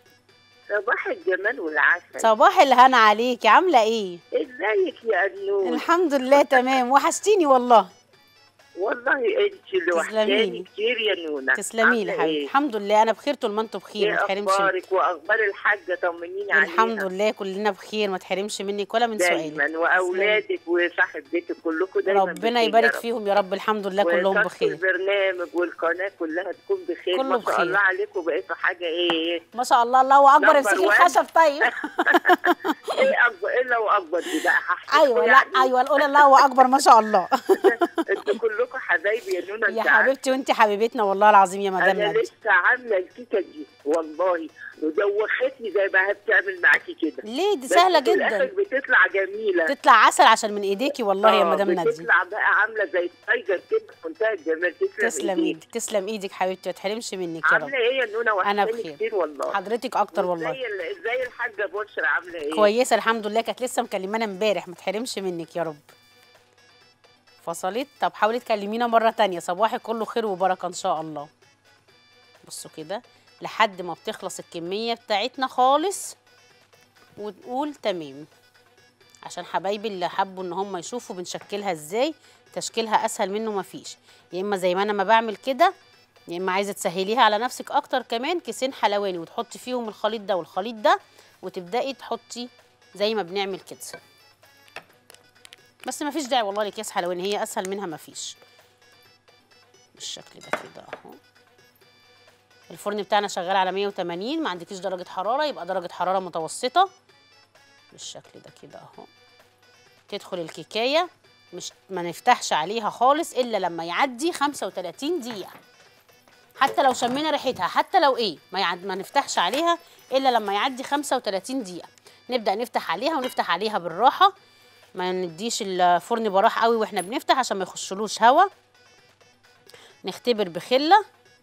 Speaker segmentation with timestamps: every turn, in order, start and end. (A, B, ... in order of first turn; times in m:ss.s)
0:00.7-0:02.3 A
0:02.2-0:04.2 B
0:04.3-0:05.8 A
0:05.6-0:07.9 B
0:08.8-0:12.5 A
0:09.9-0:10.6 B
0:11.6-0:14.7 B
0:14.0-0:17.1 A
0:16.5-0:20.4 B
0:19.2-0:23.0 A
0:22.1-0:24.8 B
0:24.0-0:29.4 A
0:27.1-0:27.8 B
0:29.5-0:33.1 B
0:30.4-0:31.2 A
0:31.7-0:36.4 A
0:34.9-0:38.4 B
0:37.5-0:40.3 A
0:39.7-0:42.3 B
0:41.8-0:49.7 A
0:47.2-0:48.5 B
0:49.7-0:52.1 B
0:51.2-0:55.6 A
0:55.0-0:57.7 B
0:57.5-0:59.6 A
0:58.4-1:00.6 B
1:00.1-1:02.7 A
1:02.5-1:05.8 B
1:07.4-1:11.3 B
1:12.4-1:16.2 B
1:17.2-1:18.3 B
1:19.2-1:25.7 B
1:26.3-1:34.0 B
1:35.8-1:38.4 B
1:40.0-1:41.2 B
1:42.7-1:46.9 B
1:47.9-1:49.1 B
1:50.1-1:55.6 B
1:56.6-2:04.3 B
2:05.0-2:08.5 B
2:10.0-2:11.0 B